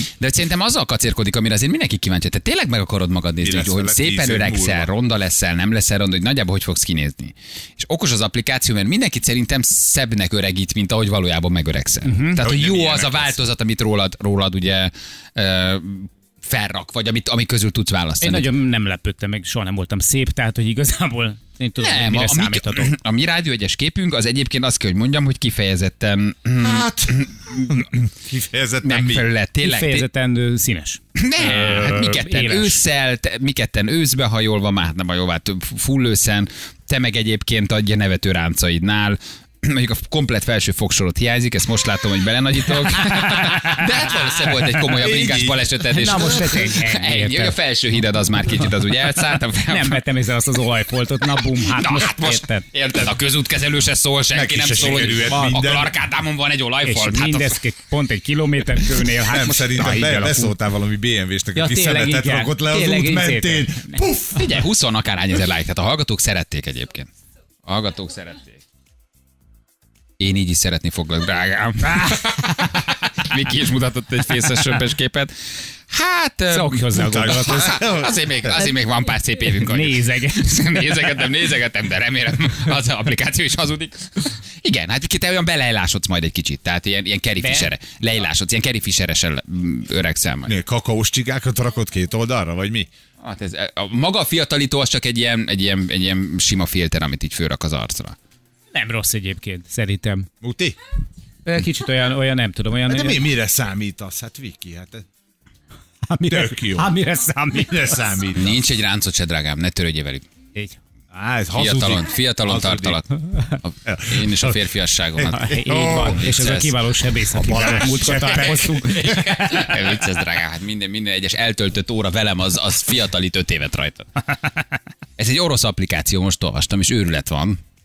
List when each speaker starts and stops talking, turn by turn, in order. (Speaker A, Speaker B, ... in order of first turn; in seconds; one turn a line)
Speaker A: 0.2-18.5
Speaker B: 3.4-4.9
Speaker C: 12.0-12.4
Speaker B: 12.4-13.4
Speaker C: 18.2-22.9
Speaker A: 21.8-27.9
Speaker B: 26.6-29.3
Speaker A: 28.8-30.1
Speaker C: 29.6-32.8
Speaker A: 31.1-50.0
Speaker C: 43.4-43.8
Speaker B: 44.9-46.2
Speaker C: 45.9-47.5
Speaker C: 49.7-52.6
Speaker A: 51.5-57.6
Speaker B: 54.3-55.9
Speaker C: 56.8-60.5
Speaker B: 59.2-64.6
Speaker C: 61.5-64.0
Speaker A: 64.3-67.1
Speaker A: 67.6-68.6
Speaker A: 70.2-75.3
Speaker C: 71.8-72.7
Speaker A: 75.9-90.5
Speaker C: 76.5-77.8
Speaker B: 77.0-78.5
Speaker C: 79.7-80.7
Speaker C: 87.4-87.7
Speaker B: 90.5-92.9
Speaker A: 93.2-98.2
Speaker C: 98.7-100.3
Speaker B: 100.4-100.8
Speaker C: 101.5-103.2
Speaker B: 102.9-105.0
Speaker C: 106.1-108.0
Speaker B: 106.3-106.9
Speaker B: 107.6-108.6
Speaker A: 108.3-110.2
Speaker B: 111.1-113.0
Speaker A: 111.5-116.8
Speaker B: 113.8-114.6
Speaker B: 115.2-116.2
Speaker C: 115.3-119.7
Speaker B: 117.3-119.3
Speaker A: 118.0-124.1
Speaker A: 125.2-127.6